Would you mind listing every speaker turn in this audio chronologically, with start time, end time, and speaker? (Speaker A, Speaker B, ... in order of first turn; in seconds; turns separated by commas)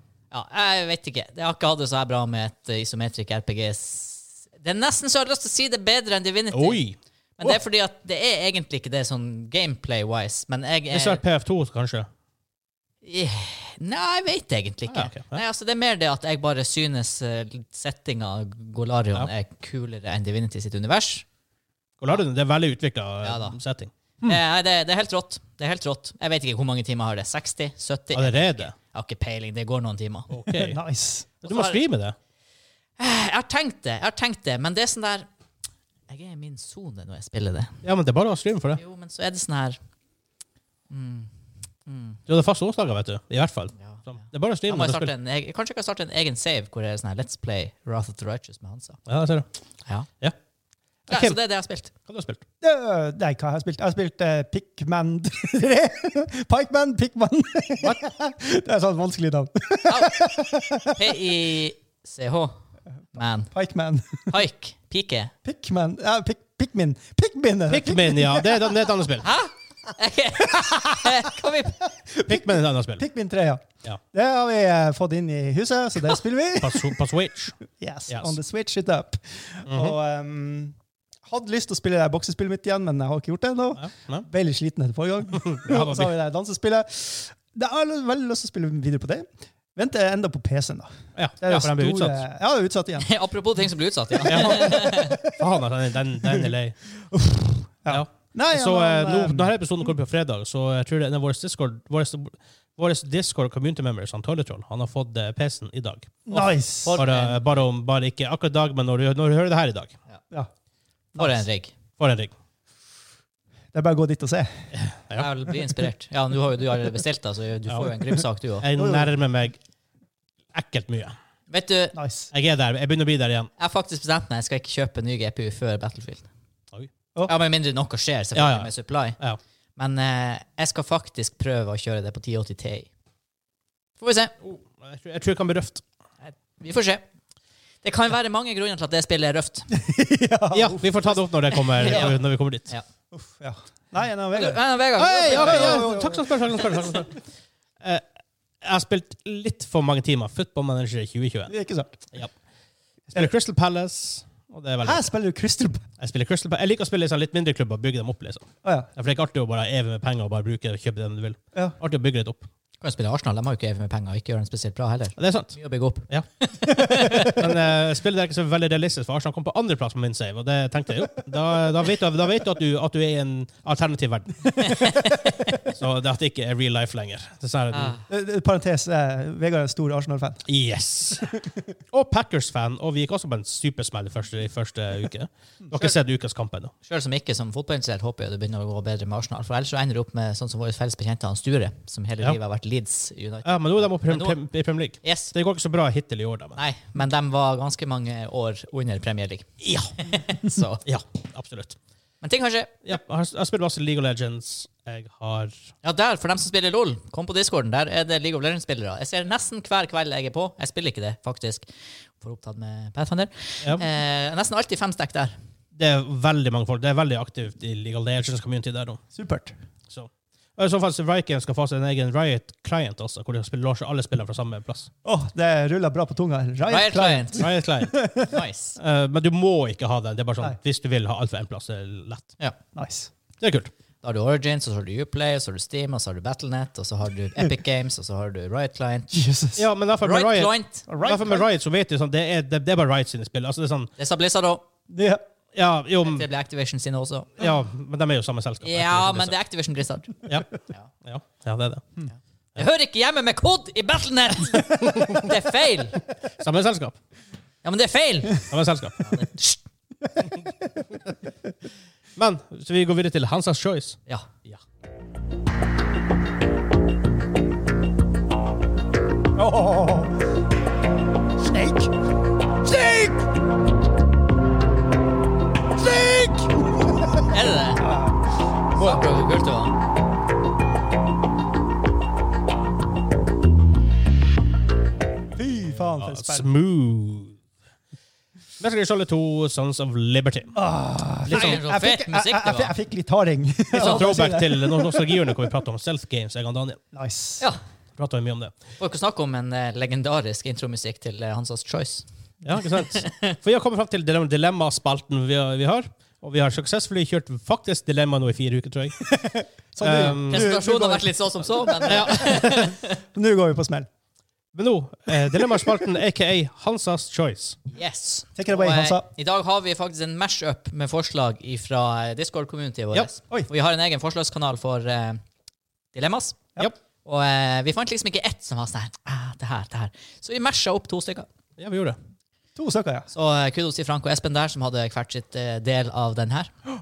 Speaker A: 0.3-6.8, Speaker B: 6.5-7.6, Speaker A: 7.4-11.2, Speaker B: 10.9-12.1, Speaker A: 13.0-21.2, Speaker B: 14.9-15.4, Speaker B: 22.0-23.9, Speaker A: 23.2-23.6, Speaker A: 24.2-30.3, Speaker B: 28.1-28.7, Speaker B: 30.3-30.8, Speaker C: 30.5-31.3, Speaker B: 31.4-32.1, Speaker A: 31.4-31.8, Speaker A: 33.0-35.3, Speaker A: 36.1-37.8, Speaker B: 37.8-38.8, Speaker A: 38.8-39.8, Speaker A: 40.9-41.3, Speaker A: 41.9-42.2, Speaker B: 42.3-45.1, Speaker A: 43.8-49.0, Speaker B: 49.1-49.5, Speaker B: 51.1-51.4, Speaker A: 51.1-51.9, Speaker B: 52.0-52.4, Speaker C: 52.6-61.0, Speaker A: 59.9-60.3, Speaker A: 60.9-62.5, Speaker A: 63.1-63.5, Speaker C: 63.5-64.3, Speaker A: 64.3-65.3, Speaker C: 65.4-68.8, Speaker B: 67.7-69.3, Speaker A: 69.2-71.8, Speaker C: 70.5-71.3, Speaker C: 72.0-77.0, Speaker B: 72.3-73.0, Speaker B: 76.6-77.6, Speaker C: 77.7-93.1, Speaker B: 78.1-78.3, Speaker B: 79.7-79.9, Speaker B: 83.8-84.2, Speaker B: 85.3-86.1, Speaker B: 91.2-92.2, Speaker A: 93.0-95.2, Speaker C: 94.2-95.3, Speaker B: 94.2-96.8, Speaker C: 97.1-99.5, Speaker B: 97.9-106.3, Speaker C: 106.3-107.0, Speaker A: 106.3-107.5, Speaker B: 106.9-110.0, Speaker A: 111.2-111.7, Speaker B: 112.0-112.3, Speaker C: 113.7-114.7, Speaker B: 114.8-115.3, Speaker A: 115.2-118.7, Speaker B: 118.6-119.6, Speaker C: 118.7-119.1, Speaker B: 120.5-121.1, Speaker A: 121.5-122.0, Speaker C: 121.9-122.3, Speaker B: 122.3-123.5, Speaker A: 123.6-126.3, Speaker A: 127.2-129.2, Speaker B: 128.3-129.4, Speaker A: 129.8-132.9, Speaker A: 134.0-134.3, Speaker B: 134.4-135.8, Speaker A: 136.2-137.0, Speaker A: 137.8-139.7, Speaker C: 139.7-140.9, Speaker B: 140.5-142.7, Speaker A: 141.5-142.8, Speaker C: 141.8-142.1, Speaker C: 143.1-144.6, Speaker A: 144.3-145.9, Speaker B: 145.0-147.1, Speaker C: 145.2-147.0, Speaker B: 148.6-151.5, Speaker C: 151.5-151.9, Speaker B: 153.1-155.1, Speaker C: 154.8-155.8, Speaker B: 156.0-162.5, Speaker C: 158.6-158.9, Speaker A: 162.8-167.4, Speaker B: 165.2-165.5, Speaker C: 166.9-167.3, Speaker B: 167.2-177.9, Speaker A: 174.6-175.5, Speaker A: 177.7-178.0, Speaker C: 178.1-180.4, Speaker B: 180.5-181.3, Speaker C: 181.2-181.5, Speaker B: 181.9-186.7, Speaker A: 186.8-194.4, Speaker B: 193.4-196.6, Speaker A: 195.0-195.3, Speaker A: 196.6-200.8, Speaker B: 199.6-199.9, Speaker B: 200.8-201.8, Speaker A: 202.2-202.7, Speaker B: 202.8-205.5, Speaker A: 205.8-211.7, Speaker A: 212.2-215.3, Speaker B: 215.8-219.0, Speaker C: 219.1-219.5, Speaker B: 219.9-224.9, Speaker C: 225.0-228.3, Speaker A: 226.7-227.5, Speaker B: 227.4-228.0, Speaker A: 228.3-228.8, Speaker B: 228.8-232.3, Speaker C: 232.7-233.1, Speaker B: 233.4-233.7, Speaker A: 234.0-239.1, Speaker C: 239.1-239.7, Speaker B: 239.6-243.9, Speaker A: 240.0-240.8, Speaker C: 240.9-241.5, Speaker A: 244.0-244.6, Speaker C: 244.9-245.2, Speaker B: 245.5-246.3, Speaker A: 246.0-247.4, Speaker B: 247.4-249.3, Speaker A: 248.6-250.2, Speaker B: 251.0-252.0, Speaker A: 252.1-256.0, Speaker B: 254.6-255.3, Speaker B: 256.4-256.9, Speaker A: 257.6-259.6, Speaker B: 258.5-259.0, Speaker C: 260.0-260.3, Speaker B: 262.1-264.6, Speaker C: 269.4-270.1, Speaker C: 271.4-271.9, Speaker C: 272.6-273.3, Speaker C: 275.7-279.0, Speaker A: 277.3-277.8, Speaker A: 278.7-279.7, Speaker C: 285.3-286.5, Speaker B: 286.0-287.4, Speaker B: 288.6-290.6, Speaker C: 290.5-295.2, Speaker A: 291.3-292.7, Speaker B: 291.3-291.6, Speaker B: 293.7-296.8, Speaker C: 296.9-297.4, Speaker B: 298.0-298.5, Speaker A: 298.8-302.1, Speaker B: 302.4-309.0, Speaker A: 302.9-303.4, Speaker C: 309.0-313.9, Speaker B: 309.8-310.5, Speaker A: 310.3-313.0, Speaker B: 311.9-312.7, Speaker B: 314.5-317.6, Speaker C: 315.3-315.7, Speaker A: 317.7-325.2, Speaker C: 318.4-319.1, Speaker A: 325.9-326.5, Speaker A: 327.0-331.3, Speaker B: 331.6-332.0, Speaker C: 332.6-333.1, Speaker A: 333.1-336.5